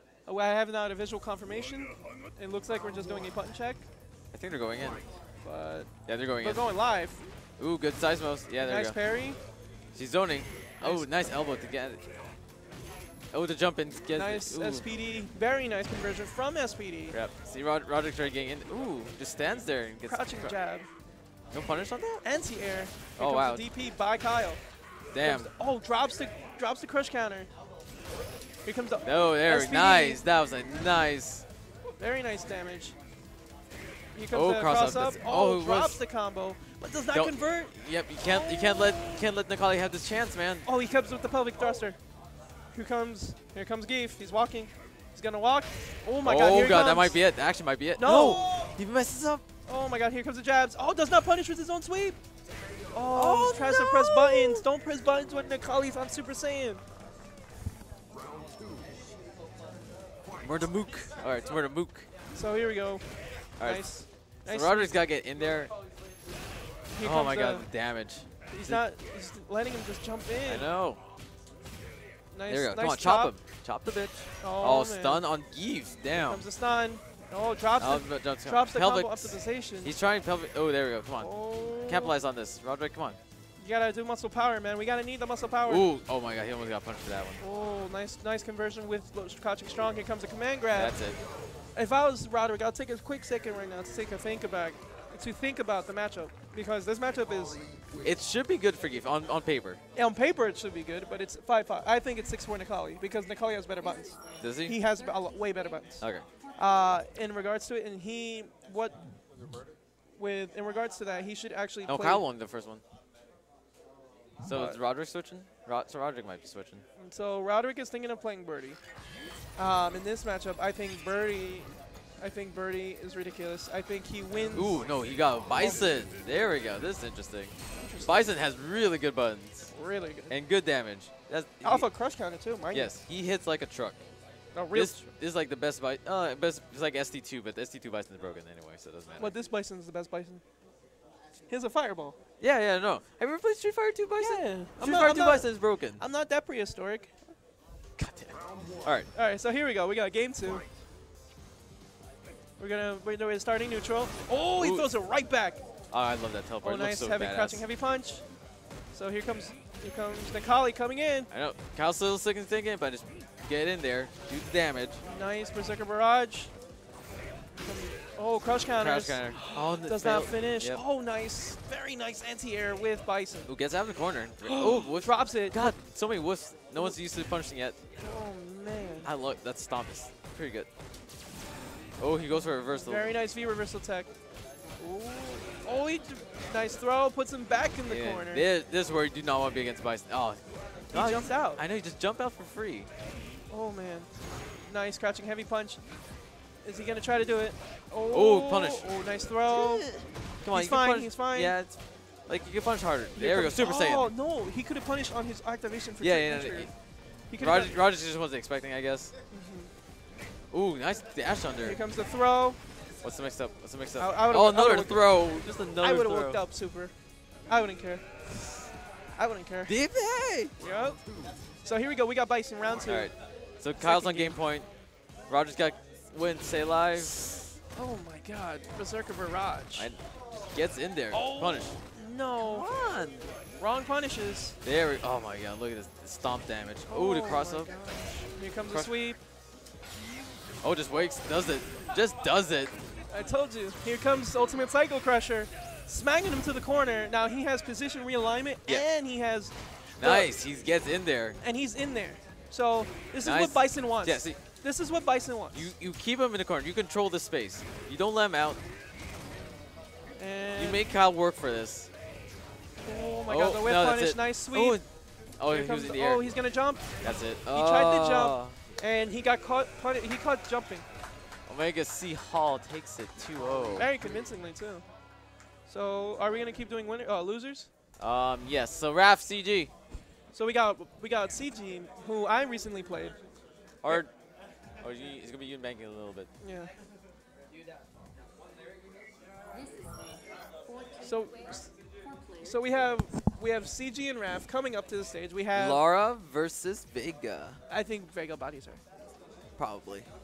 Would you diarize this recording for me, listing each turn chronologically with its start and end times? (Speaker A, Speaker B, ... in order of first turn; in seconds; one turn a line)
Speaker A: 0.2-3.8
Speaker B: 4.3-5.0
Speaker A: 5.4-7.2
Speaker B: 6.0-6.7
Speaker B: 7.6-8.9
Speaker A: 8.6-9.4
Speaker B: 9.9-12.0
Speaker A: 10.8-11.2
Speaker B: 13.3-14.9
Speaker A: 14.1-17.2
Speaker B: 17.1-20.6
Speaker A: 20.1-20.9
Speaker B: 21.5-22.2
Speaker A: 22.2-24.6
Speaker B: 23.2-23.6
Speaker B: 25.1-25.5
Speaker A: 25.2-27.5
Speaker A: 28.6-30.2
Speaker B: 29.0-31.4
Speaker A: 32.0-33.0
Speaker A: 34.1-37.7
Speaker B: 34.3-36.0
Speaker B: 37.1-40.7
Speaker A: 38.2-39.3
Speaker A: 40.6-42.0
Speaker A: 42.7-47.2
Speaker B: 46.2-49.4
Speaker A: 48.0-48.7
Speaker A: 49.6-52.2
Speaker A: 52.9-56.8
Speaker B: 53.1-54.6
Speaker B: 60.4-62.1
Speaker A: 62.3-63.0
Speaker B: 63.6-63.9
Speaker A: 63.6-65.0
Speaker B: 64.5-65.7
Speaker A: 66.9-67.7
Speaker B: 67.0-68.8
Speaker A: 68.5-70.7
Speaker B: 70.5-71.0
Speaker A: 72.3-73.3
Speaker B: 72.5-76.5
Speaker A: 74.4-75.2
Speaker A: 76.2-79.9
Speaker B: 77.8-81.3
Speaker A: 81.2-82.1
Speaker B: 81.8-83.2
Speaker A: 83.6-85.9
Speaker B: 85.7-87.4
Speaker A: 87.4-91.0
Speaker B: 90.7-91.2
Speaker A: 91.7-97.6
Speaker B: 98.0-99.8
Speaker A: 100.0-109.0
Speaker B: 104.4-104.8
Speaker B: 106.0-106.2
Speaker A: 110.2-112.2
Speaker B: 111.8-112.8
Speaker B: 114.4-116.8
Speaker A: 114.5-114.8
Speaker A: 117.0-118.8
Speaker A: 119.5-124.8
Speaker B: 124.5-129.7
Speaker A: 127.8-128.2
Speaker A: 129.7-130.3
Speaker B: 130.3-131.8
Speaker A: 131.6-132.9
Speaker B: 132.7-134.0
Speaker A: 134.5-135.1
Speaker B: 134.7-139.3
Speaker A: 139.2-140.4
Speaker A: 141.5-142.2
Speaker B: 142.4-146.0
Speaker A: 144.2-147.3
Speaker B: 148.0-149.1
Speaker A: 149.1-150.6
Speaker A: 152.6-155.6
Speaker B: 154.6-154.9
Speaker B: 155.9-157.6
Speaker A: 156.6-158.2
Speaker A: 158.9-161.3
Speaker B: 161.3-165.0
Speaker A: 165.0-166.5
Speaker A: 167.6-173.5
Speaker B: 168.8-170.8
Speaker B: 173.4-177.8
Speaker A: 174.4-175.7
Speaker A: 178.0-179.1
Speaker B: 179.0-180.7
Speaker B: 182.0-183.1
Speaker A: 182.8-184.1
Speaker A: 184.8-188.5
Speaker B: 187.9-192.9
Speaker A: 190.9-191.6
Speaker A: 193.5-194.1
Speaker A: 194.7-195.8
Speaker A: 196.6-199.9
Speaker B: 198.1-198.9
Speaker B: 199.5-201.8
Speaker A: 200.5-201.6
Speaker B: 202.3-204.1
Speaker A: 203.2-206.7
Speaker B: 206.0-206.7
Speaker A: 207.3-207.7
Speaker B: 207.4-209.1
Speaker A: 209.3-209.7
Speaker B: 210.5-211.8
Speaker A: 211.6-212.6
Speaker B: 213.0-216.4
Speaker A: 214.0-215.2
Speaker A: 215.8-216.9
Speaker A: 217.5-218.0
Speaker A: 219.2-219.7
Speaker B: 219.7-220.5
Speaker A: 220.6-221.0
Speaker A: 221.6-223.1
Speaker B: 222.9-224.7
Speaker A: 223.8-224.4
Speaker B: 225.3-227.1
Speaker A: 227.7-229.9
Speaker B: 230.5-231.8
Speaker A: 231.1-232.7
Speaker B: 232.4-233.3
Speaker A: 233.5-234.6
Speaker B: 234.6-237.8
Speaker A: 236.9-239.2
Speaker B: 240.6-242.7
Speaker A: 243.1-250.3
Speaker B: 250.0-251.4
Speaker A: 251.4-255.7
Speaker B: 253.2-254.4
Speaker B: 255.5-258.6
Speaker A: 260.2-260.9
Speaker B: 260.6-261.9
Speaker A: 262.8-264.8
Speaker B: 263.3-264.9
Speaker B: 265.4-266.3
Speaker A: 265.5-266.9
Speaker B: 267.0-268.6
Speaker A: 267.5-270.8
Speaker B: 271.4-273.9
Speaker A: 273.8-274.8
Speaker A: 275.7-277.7
Speaker B: 278.0-279.7
Speaker A: 280.3-283.1
Speaker B: 283.8-284.1
Speaker B: 284.8-286.3
Speaker A: 286.4-286.7
Speaker A: 291.0-291.7
Speaker A: 292.4-295.8
Speaker B: 295.5-297.6
Speaker A: 297.7-298.8
Speaker B: 299.6-300.1